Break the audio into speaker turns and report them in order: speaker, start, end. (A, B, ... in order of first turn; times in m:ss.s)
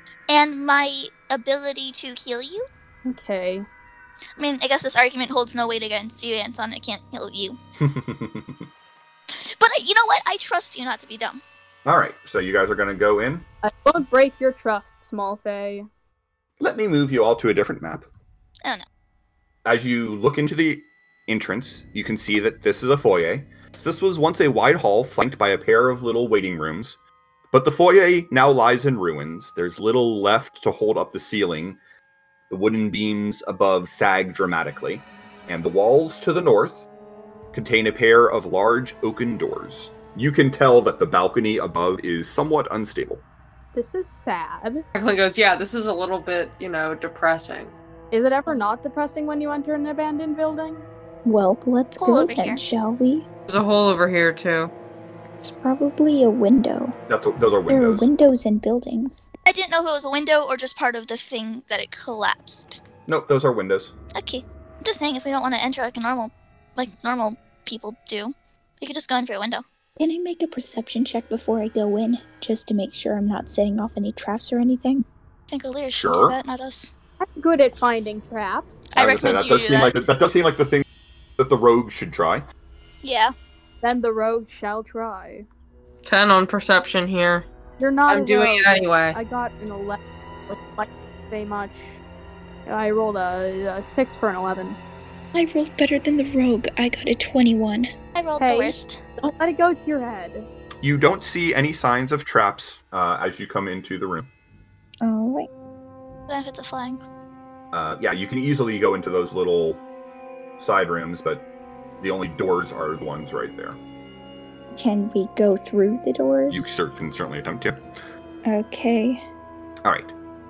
0:00.3-0:02.7 A
0:03.1-0:03.7 B
0:04.4-0:07.6 A
0:07.8-0:08.7 C
0:09.4-0:11.4 A
0:11.9-0:13.4 C
0:13.6-0:15.9 B
0:16.6-0:18.1 C
0:19.6-0:27.0 C
0:27.5-0:31.8 C
0:32.5-0:36.9 C
0:37.5-0:43.2 C
0:43.7-0:44.8 B
0:44.9-0:47.7 D
0:48.1-0:50.9 B
0:51.2-0:53.3 E
0:52.0-0:52.6 A
0:53.5-0:54.7 D
0:55.4-0:57.0 E
0:57.1-0:58.1 C
0:57.7-0:59.3 E
0:59.4-1:02.8 A
1:03.1-1:03.9 C
1:04.2-1:09.6 A
1:10.0-1:15.0 E
1:15.5-1:16.9 A
1:16.0-1:16.4 C
1:17.2-1:18.9 B
1:18.9-1:20.0 A
1:19.0-1:20.8 C
1:21.4-1:22.4 C
1:23.0-1:23.3 A
1:23.8-1:25.5 B
1:26.1-1:27.4 D
1:27.8-1:30.0 B
1:28.1-1:29.2 D
1:30.5-1:32.0 B
1:32.7-1:34.8 B
1:35.3-1:37.9 E
1:38.2-1:39.0 A
1:38.4-1:40.4 B
1:40.8-1:44.3 C
1:45.0-1:45.5 E
1:46.3-1:47.0 A
1:47.7-1:49.8 C
1:50.6-1:51.4 C
1:52.0-1:53.8 C
1:54.7-1:56.7 E
1:56.5-1:57.8 C
1:58.4-1:59.2 E
1:59.8-2:00.1 C